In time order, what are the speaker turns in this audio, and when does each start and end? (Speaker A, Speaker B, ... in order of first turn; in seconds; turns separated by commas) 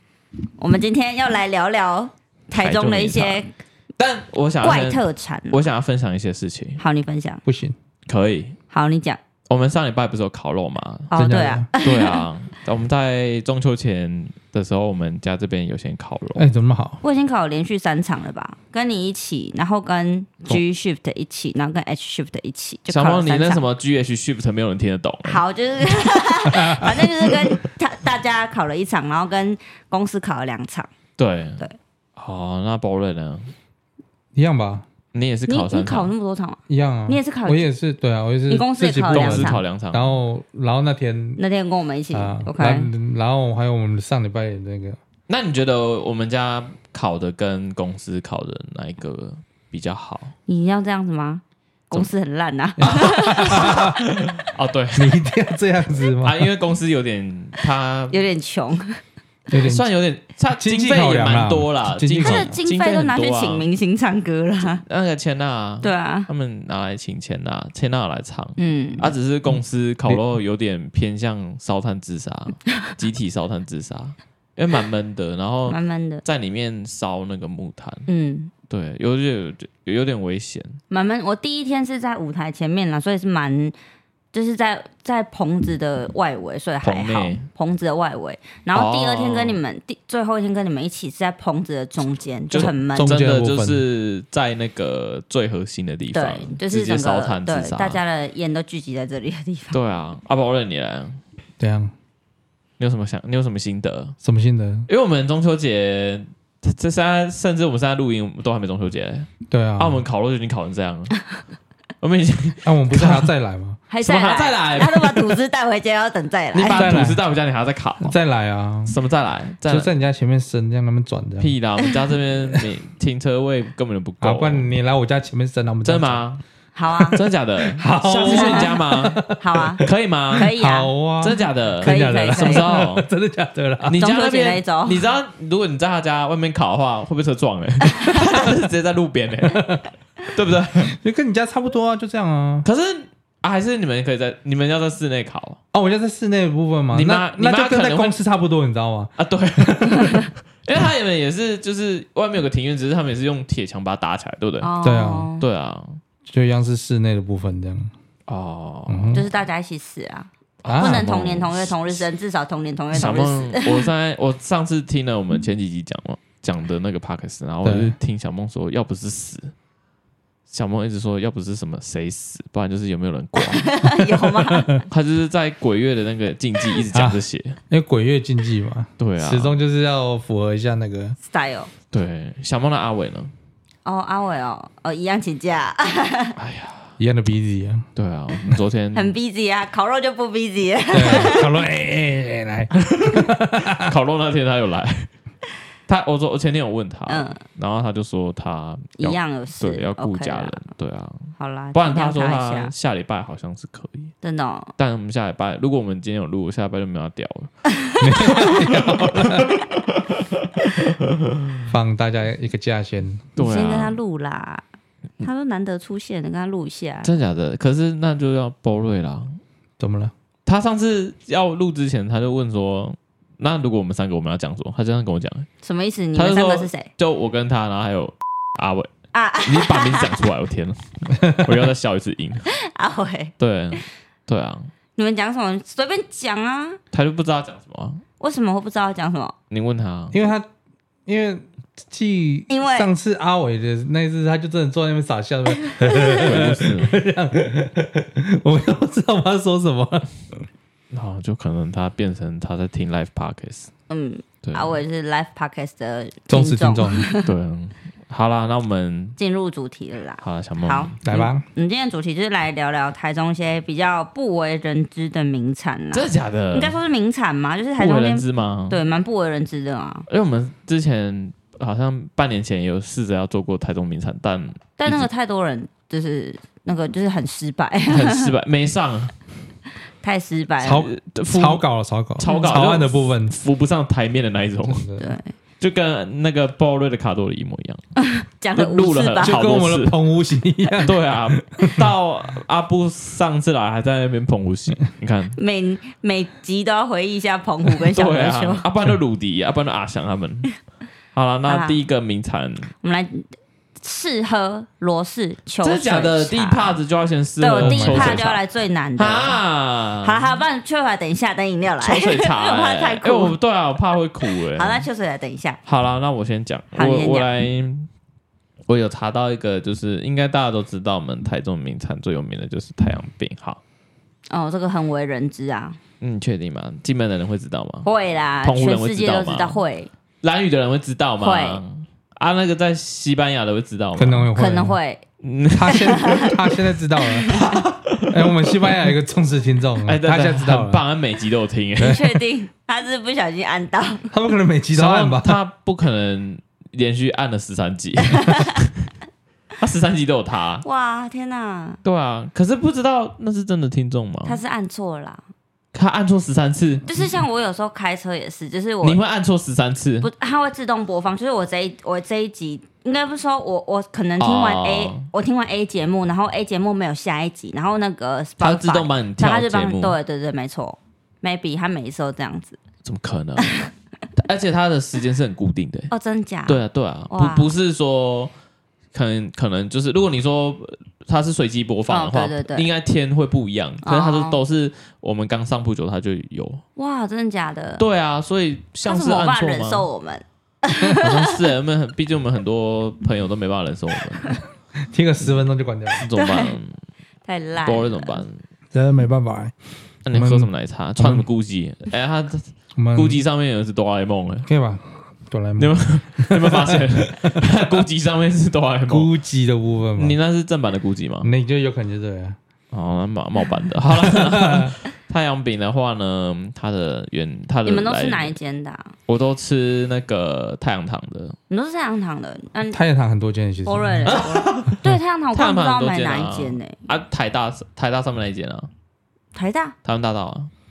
Speaker A: 0.6-3.5, Speaker B: 2.5-3.4, Speaker B: 4.0-6.8, Speaker A: 4.6-5.6, Speaker A: 6.8-7.4, Speaker C: 7.5-7.8, Speaker B: 8.1-8.6, Speaker A: 8.7-9.2, Speaker B: 9.5-11.1, Speaker A: 11.1-12.2, Speaker C: 11.2-11.7, Speaker B: 11.8-16.5, Speaker C: 16.4-17.0, Speaker A: 17.0-23.6, Speaker B: 22.9-25.4, Speaker A: 25.2-30.9, Speaker C: 26.5-27.1, Speaker B: 31.2-31.6, Speaker B: 32.2-33.5, Speaker C: 34.3-34.9, Speaker B: 35.1-36.1, Speaker A: 35.5-37.7, Speaker C: 36.7-41.4, Speaker A: 38.5-39.6, Speaker B: 39.1-40.2, Speaker A: 41.4-42.9, Speaker C: 42.1-45.0, Speaker B: 45.3-50.4, Speaker A: 50.5-53.9, Speaker C: 52.8-54.0, Speaker B: 52.9-55.2, Speaker C: 55.0-56.5, Speaker B: 56.2-58.2, Speaker A: 58.1-59.0, Speaker C: 59.5-59.9, Speaker B: 59.5-63.7, Speaker C: 60.6-62.6, Speaker A: 62.2-64.8, Speaker B: 64.9-78.1, Speaker A: 65.8-66.3, Speaker A: 68.6-69.1, Speaker A: 75.7-76.2, Speaker A: 78.1-78.5, Speaker B: 78.7-80.8, Speaker A: 80.9-83.8, Speaker A: 84.3-93.1, Speaker B: 86.8-87.5, Speaker B: 88.7-89.6, Speaker B: 92.5-98.0, Speaker C: 92.6-93.8, Speaker A: 96.1-99.8, Speaker B: 99.7-101.2, Speaker C: 101.6-101.9, Speaker B: 102.8-104.2, Speaker C: 104.2-104.9, Speaker B: 104.9-111.3, Speaker C: 109.5-110.0, Speaker B: 112.0-113.3, Speaker C: 112.6-113.8, Speaker A: 113.9-116.9, Speaker B: 114.0-115.4, Speaker B: 116.5-118.2, Speaker C: 116.7-117.2, Speaker C: 118.0-119.0, Speaker B: 118.9-119.9, Speaker C: 119.7-121.5, Speaker B: 121.4-124.7, Speaker C: 124.2-126.2, Speaker B: 125.8-126.4, Speaker A: 126.7-127.2, Speaker C: 127.0-134.0, Speaker B: 127.1-130.5, Speaker A: 128.0-128.8, Speaker A: 129.4-130.9, Speaker B: 131.2-133.1, Speaker A: 131.8-132.7, Speaker B: 133.8-141.0, Speaker A: 134.0-135.0, Speaker C: 139.4-139.9, Speaker C: 140.8-142.7, Speaker B: 142.7-145.6, Speaker C: 145.7-150.2, Speaker B: 146.9-148.2, Speaker B: 149.2-154.7, Speaker A: 154.6-155.4, Speaker C: 154.8-155.3, Speaker B: 155.4-156.0, Speaker C: 156.3-157.9, Speaker B: 158.3-159.2, Speaker C: 158.9-159.3, Speaker A: 159.1-163.9, Speaker B: 160.6-162.0, Speaker C: 160.7-161.1, Speaker B: 162.9-169.5, Speaker C: 167.6-168.0, Speaker B: 170.5-173.9, Speaker A: 173.4-174.7, Speaker C: 174.4-174.8, Speaker B: 174.8-177.6, Speaker C: 176.9-181.2, Speaker B: 179.0-179.6, Speaker A: 181.2-181.7, Speaker B: 181.9-183.3, Speaker A: 183.8-186.4, Speaker B: 186.4-186.9, Speaker C: 187.0-187.9, Speaker B: 188.0-189.2, Speaker A: 188.9-191.5, Speaker C: 190.9-193.9, Speaker B: 192.8-195.1, Speaker B: 195.9-204.1, Speaker A: 197.1-197.4, Speaker A: 199.0-200.6, Speaker A: 201.4-202.7, Speaker A: 204.2-204.7, Speaker B: 204.8-207.6, Speaker C: 208.0-209.6, Speaker B: 208.2-211.7, Speaker C: 211.7-213.3, Speaker B: 213.4-214.0, Speaker A: 213.4-214.7, Speaker A: 215.2-217.1, Speaker B: 217.0-219.4, Speaker C: 219.8-220.1, Speaker B: 220.5-225.5, Speaker A: 225.6-226.9, Speaker B: 226.2-228.9, Speaker A: 229.1-230.2, Speaker B: 229.4-232.5, Speaker C: 231.2-231.5, Speaker A: 232.5-233.8, Speaker B: 233.4-234.7, Speaker A: 235.0-236.8, Speaker B: 236.9-238.0, Speaker A: 238.2-239.3, Speaker B: 239.5-240.2, Speaker C: 240.1-240.5, Speaker C: 241.1-250.5, Speaker A: 242.5-242.9, Speaker A: 245.6-246.4, Speaker B: 246.2-246.9, Speaker B: 250.9-253.7, Speaker A: 253.9-257.3, Speaker B: 254.4-254.8, Speaker C: 256.3-257.1, Speaker B: 257.2-259.2, Speaker A: 259.2-270.1, Speaker B: 260.2-261.1, Speaker C: 261.0-261.4, Speaker B: 265.9-266.8, Speaker B: 267.8-268.8, Speaker B: 270.1-275.1, Speaker A: 274.8-278.3, Speaker B: 277.9-279.1, Speaker A: 280.0-280.9, Speaker C: 280.6-283.4, Speaker B: 280.7-281.6, Speaker B: 282.2-284.9, Speaker C: 284.7-285.2, Speaker A: 285.0-285.3, Speaker B: 285.6-287.8, Speaker A: 288.0-289.4, Speaker B: 288.6-290.0, Speaker C: 289.2-291.9, Speaker B: 290.8-295.4, Speaker A: 295.4-298.7, Speaker B: 297.8-300.5, Speaker B: 301.1-302.7, Speaker A: 301.5-301.8, Speaker A: 302.8-306.8, Speaker B: 305.6-308.4, Speaker A: 307.4-309.4, Speaker C: 307.5-308.2, Speaker B: 309.0-310.3, Speaker A: 310.0-313.4, Speaker B: 311.8-314.9, Speaker A: 314.3-315.6, Speaker B: 315.7-317.9, Speaker A: 316.7-317.3, Speaker B: 318.7-323.6, Speaker A: 324.3-325.8, Speaker B: 326.0-327.9, Speaker A: 327.9-329.9, Speaker B: 328.4-329.6, Speaker B: 330.2-334.3, Speaker A: 331.2-331.6, Speaker C: 334.0-334.8, Speaker A: 334.4-335.0, Speaker B: 335.2-336.3, Speaker C: 335.6-337.4, Speaker A: 335.7-336.4, Speaker A: 337.0-337.6, Speaker B: 337.3-338.9, Speaker C: 338.1-340.8, Speaker B: 339.8-342.1, Speaker A: 341.8-344.1, Speaker C: 341.8-342.0, Speaker C: 344.1-345.4, Speaker B: 344.7-348.9, Speaker A: 348.1-348.5, Speaker B: 349.6-350.6, Speaker A: 350.6-351.8, Speaker B: 351.8-354.4, Speaker A: 354.2-355.2, Speaker B: 355.7-356.9, Speaker A: 356.9-359.0, Speaker B: 358.8-360.1, Speaker A: 360.0-372.6, Speaker B: 364.2-365.1, Speaker B: 368.4-370.0, Speaker B: 372.8-375.9, Speaker A: 373.4-373.7, Speaker A: 375.9-377.5, Speaker B: 376.5-378.3, Speaker B: 378.9-386.6, Speaker A: 381.9-382.7, Speaker A: 383.8-384.4, Speaker A: 386.8-387.8, Speaker B: 387.8-389.9, Speaker A: 388.9-391.4, Speaker B: 391.0-394.4, Speaker C: 394.9-396.1, Speaker B: 396.0-396.8, Speaker A: 396.1-396.6, Speaker A: 397.3-398.2, Speaker B: 397.6-398.4, Speaker C: 398.7-399.6, Speaker B: 400.1-404.5, Speaker C: 400.1-401.3, Speaker C: 402.8-403.2, Speaker C: 404.5-407.8, Speaker B: 405.6-409.1, Speaker C: 408.9-410.2, Speaker B: 410.0-411.3, Speaker C: 411.2-412.4, Speaker B: 412.7-418.4, Speaker C: 413.9-414.8, Speaker A: 417.7-418.9, Speaker B: 419.1-421.4, Speaker A: 421.5-422.8, Speaker C: 422.7-424.3, Speaker A: 423.6-426.8, Speaker B: 424.1-428.7, Speaker A: 429.3-429.8, Speaker B: 429.9-430.5